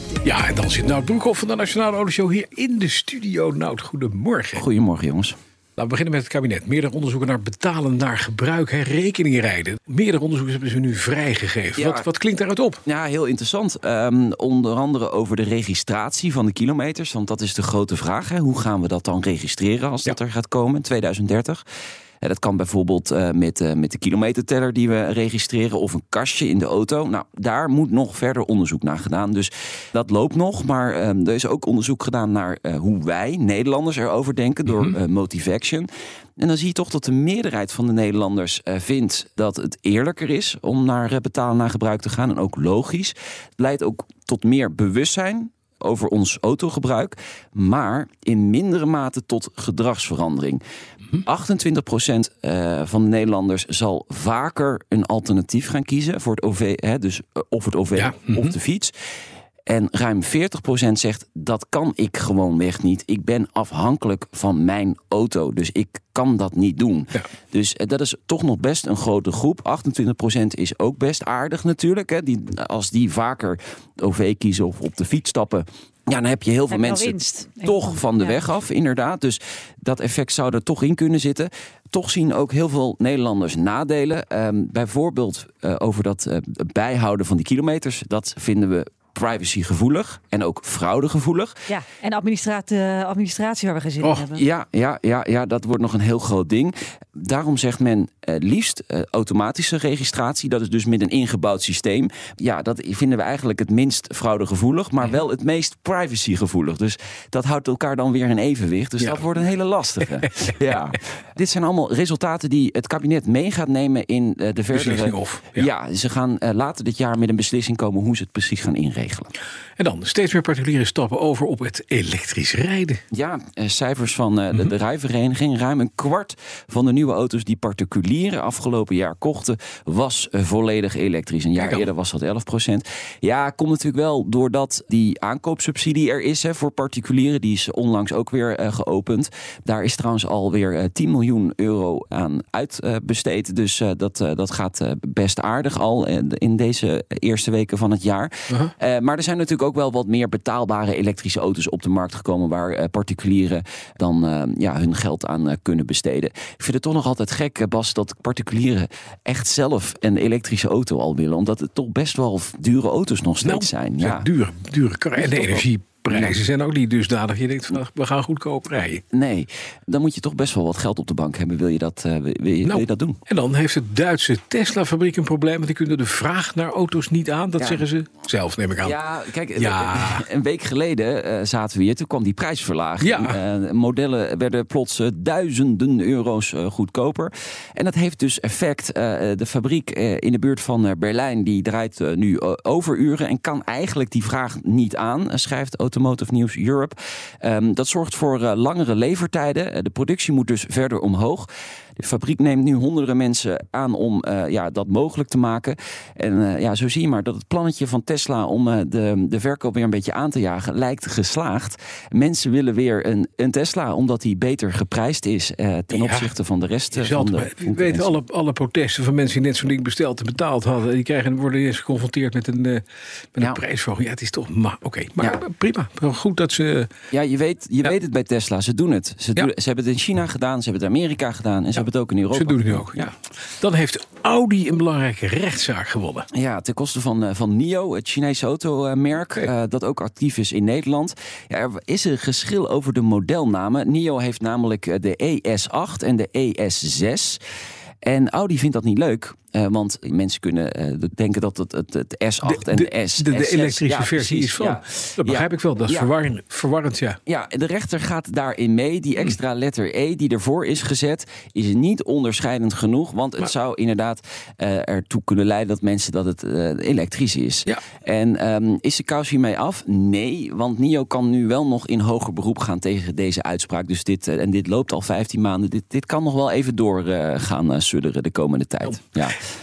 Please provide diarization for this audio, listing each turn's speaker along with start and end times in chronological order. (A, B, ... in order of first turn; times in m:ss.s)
0:00.2-0:04.6 A
0:04.6-0:05.4 B
0:05.8-0:12.8 A
0:11.8-0:12.1 B
0:12.8-0:21.6 B
0:22.2-0:50.6 B
0:51.2-0:58.9 B
0:58.0-0:58.5 A
0:59.7-1:31.6 B
1:16.7-1:18.4 C
1:31.7-1:34.4 C
1:34.3-1:59.3 B
1:54.7-1:55.7 A
1:59.8-2:03.0 A
2:03.1-2:44.3 B
2:11.6-2:11.9 A
2:43.4-2:49.0 A
2:45.2-2:46.4 B
2:49.0-2:53.2 B
2:52.6-2:59.0 A
2:57.6-2:57.9 B
2:58.8-3:21.5 B
2:59.6-3:00.2 A
3:03.0-3:03.4 A
3:22.0-3:38.2 B
3:35.9-3:36.3 A
3:36.9-3:46.9 A
3:47.1-3:52.9 B
3:52.3-3:56.3 A
3:56.3-4:07.4 B
4:08.0-4:16.1 B
4:12.4-4:17.2 A
4:17.3-4:39.4 B